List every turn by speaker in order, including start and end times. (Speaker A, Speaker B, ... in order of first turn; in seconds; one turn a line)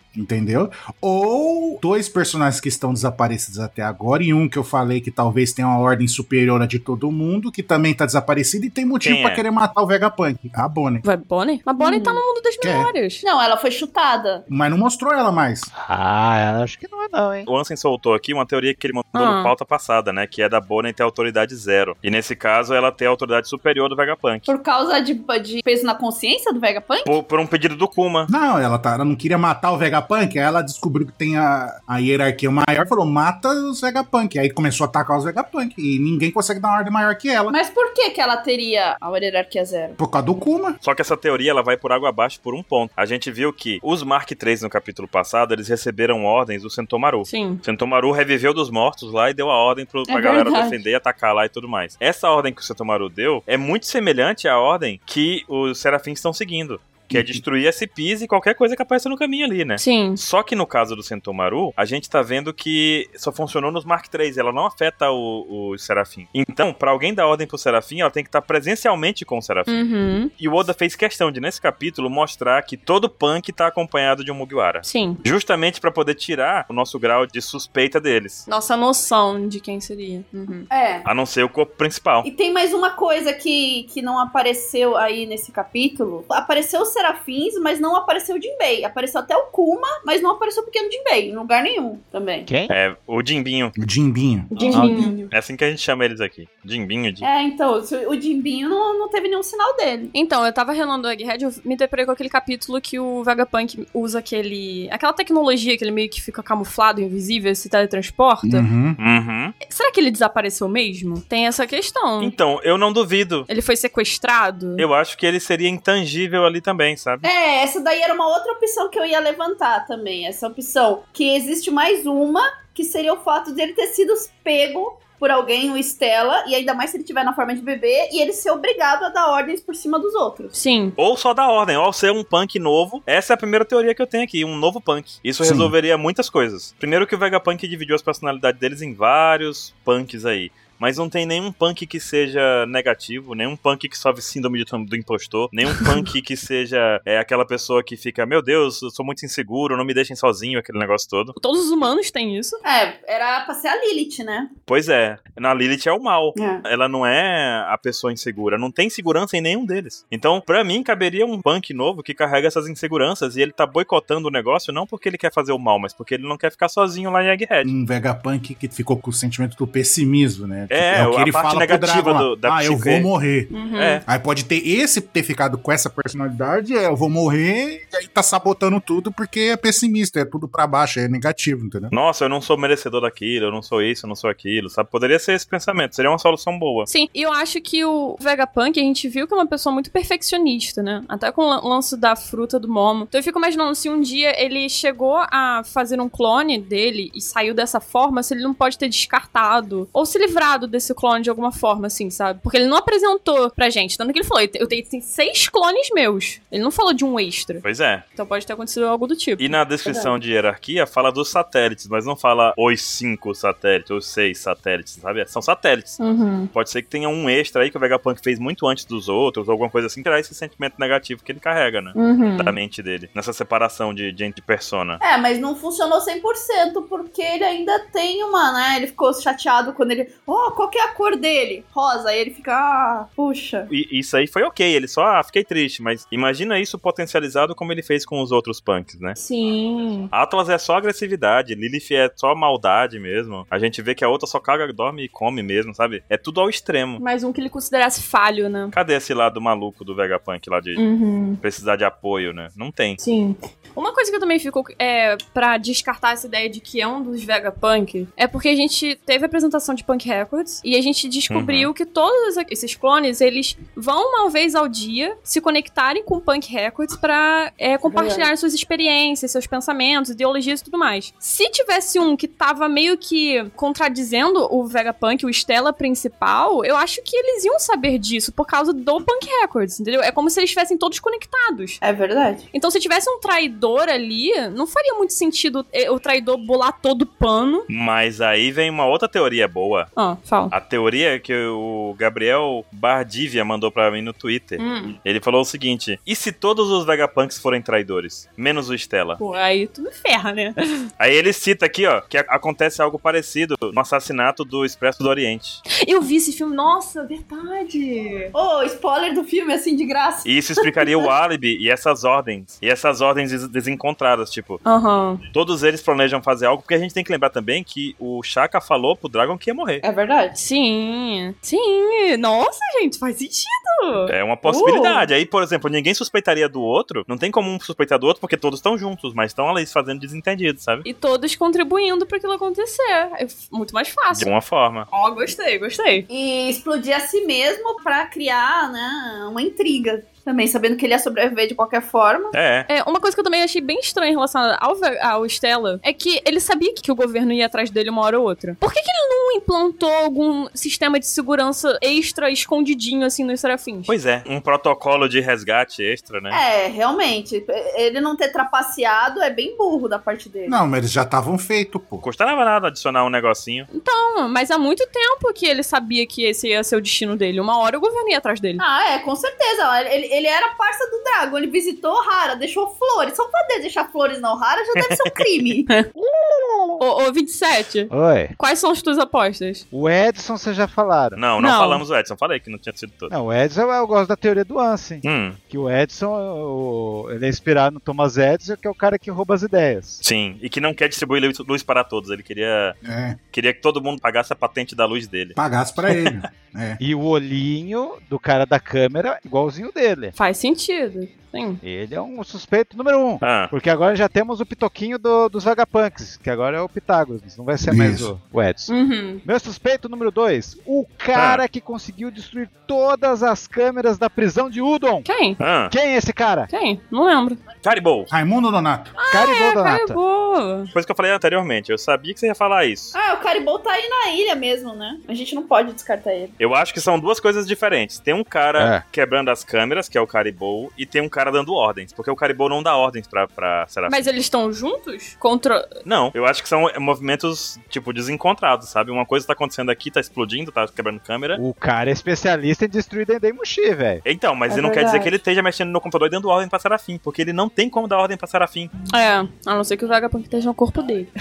Speaker A: 0.1-11.1
Speaker B: 9.0-9.4
Speaker C: 11.1-13.2
Speaker D: 11.8-12.2
Speaker A: 12.6-12.9
Speaker D: 13.2-14.5
Speaker A: 14.5-15.7
Speaker E: 15.8-17.5
Speaker B: 17.5-24.5
Speaker C: 19.1-19.5
Speaker D: 24.5-27.1
Speaker B: 27.0-28.3
Speaker A: 28.3-37.5
Speaker D: 37.5-40.0
Speaker A: 40.0-40.8
Speaker B: 40.8-69.8
Speaker C: 47.3-47.6
Speaker D: 50.1-50.8
Speaker A: 57.1-57.4
Speaker C: 59.8-60.2
Speaker C: 69.7-70.3
Speaker B: 70.4-78.5
Speaker C: 74.8-75.2
Speaker C: 78.5-80.7
Speaker D: 80.7-81.1
Speaker B: 81.0-82.3
Speaker D: 82.2-92.5
Speaker E: 92.5-92.7
Speaker B: 92.7-93.8
Speaker A: 93.8-94.5
Speaker C: 94.5-95.3
Speaker D: 94.6-95.2
Speaker E: 94.7-95.1
Speaker B: 95.3-97.3
Speaker D: 97.2-100.1
Speaker C: 100.1-108.7
Speaker A: 108.4-109.0
Speaker B: 109.0-109.5
Speaker C: 109.6-112.3
Speaker B: 112.2-113.5
Speaker C: 113.5-114.8
Speaker B: 114.8-117.3
Speaker D: 117.2-130.6
Speaker C: 130.5-131.0
Speaker B: 131.0-151.3
Speaker A: 135.4-135.7
Speaker C: 151.4-152.6
Speaker D: 152.7-154.5
Speaker B: 154.7-167.7
Speaker D: 156.3-156.6
Speaker A: 167.6-173.5
Speaker B: 170.7-173.1
Speaker C: 173.5-174.0
Speaker B: 173.8-174.0
Speaker A: 174.1-181.9
Speaker B: 181.9-186.9
Speaker C: 186.9-207.6
Speaker B: 207.6-208.0
Speaker C: 208.2-209.5
Speaker B: 209.4-216.0
Speaker D: 209.8-210.2
Speaker C: 216.0-216.5
Speaker B: 216.5-225.0
Speaker C: 221.9-222.6
Speaker D: 225.0-233.7
Speaker B: 233.7-239.2
Speaker C: 239.2-240.1
Speaker B: 240.1-247.0
Speaker C: 247.0-248.7
Speaker B: 248.7-250.8
Speaker C: 250.8-251.4
Speaker B: 251.4-253.0
Speaker C: 253.0-281.8
Speaker B: 261.3-261.7
Speaker D: 267.8-268.3
Speaker D: 281.8-282.5
Speaker C: 282.5-287.7
Speaker B: 287.7-289.9
Speaker C: 290.0-290.5
Speaker B: 290.5-299.2
Speaker C: 294.6-295.0
Speaker C: 299.2-300.6
Speaker B: 301.0-305.6
Speaker C: 305.7-308.3
Speaker D: 308.3-310.9
Speaker B: 310.2-314.6
Speaker C: 314.6-315.2
Speaker B: 315.3-319.9
Speaker D: 319.8-320.4
Speaker C: 320.3-324.1
Speaker B: 324.1-330.9
Speaker D: 324.4-325.1
Speaker C: 330.9-334.3
Speaker B: 334.1-334.9
Speaker C: 334.9-336.1
Speaker D: 336.1-342.4
Speaker B: 342.3-342.7
Speaker C: 342.7-353.9
Speaker B: 353.9-356.4
Speaker D: 356.3-360.6
Speaker A: 360.5-362.0
Speaker B: 362.0-363.7
Speaker C: 363.7-368.6
Speaker D: 368.6-375.7
Speaker B: 374.8-375.2
Speaker E: 376.0-376.8
Speaker C: 376.8-379.6
Speaker E: 377.9-378.3
Speaker E: 379.7-381.2
Speaker B: 381.1-383.1
Speaker C: 381.4-381.8
Speaker E: 383.1-390.0
Speaker B: 385.0-385.4
Speaker B: 390.0-392.8
Speaker A: 392.8-393.2
Speaker B: 393.3-395.4
Speaker A: 395.4-396.8
Speaker E: 396.8-400.1
Speaker C: 400.2-401.6
Speaker E: 401.6-415.1
Speaker B: 403.2-403.5
Speaker A: 407.7-408.1
Speaker C: 408.7-409.2
Speaker B: 411.1-411.4
Speaker C: 415.1-415.4
Speaker B: 415.4-415.7
Speaker E: 415.7-416.5
Speaker C: 416.5-417.4
Speaker B: 417.6-418.1
Speaker A: 418.1-419.0
Speaker C: 419.0-420.7
Speaker E: 419.1-420.0
Speaker B: 420.7-422.9
Speaker D: 422.9-426.4
Speaker B: 426.4-434.1
Speaker E: 428.6-428.8
Speaker C: 433.9-435.7
Speaker B: 435.9-441.4
Speaker E: 441.4-444.0
Speaker B: 444.1-448.7
Speaker D: 444.5-445.1
Speaker C: 448.9-451.1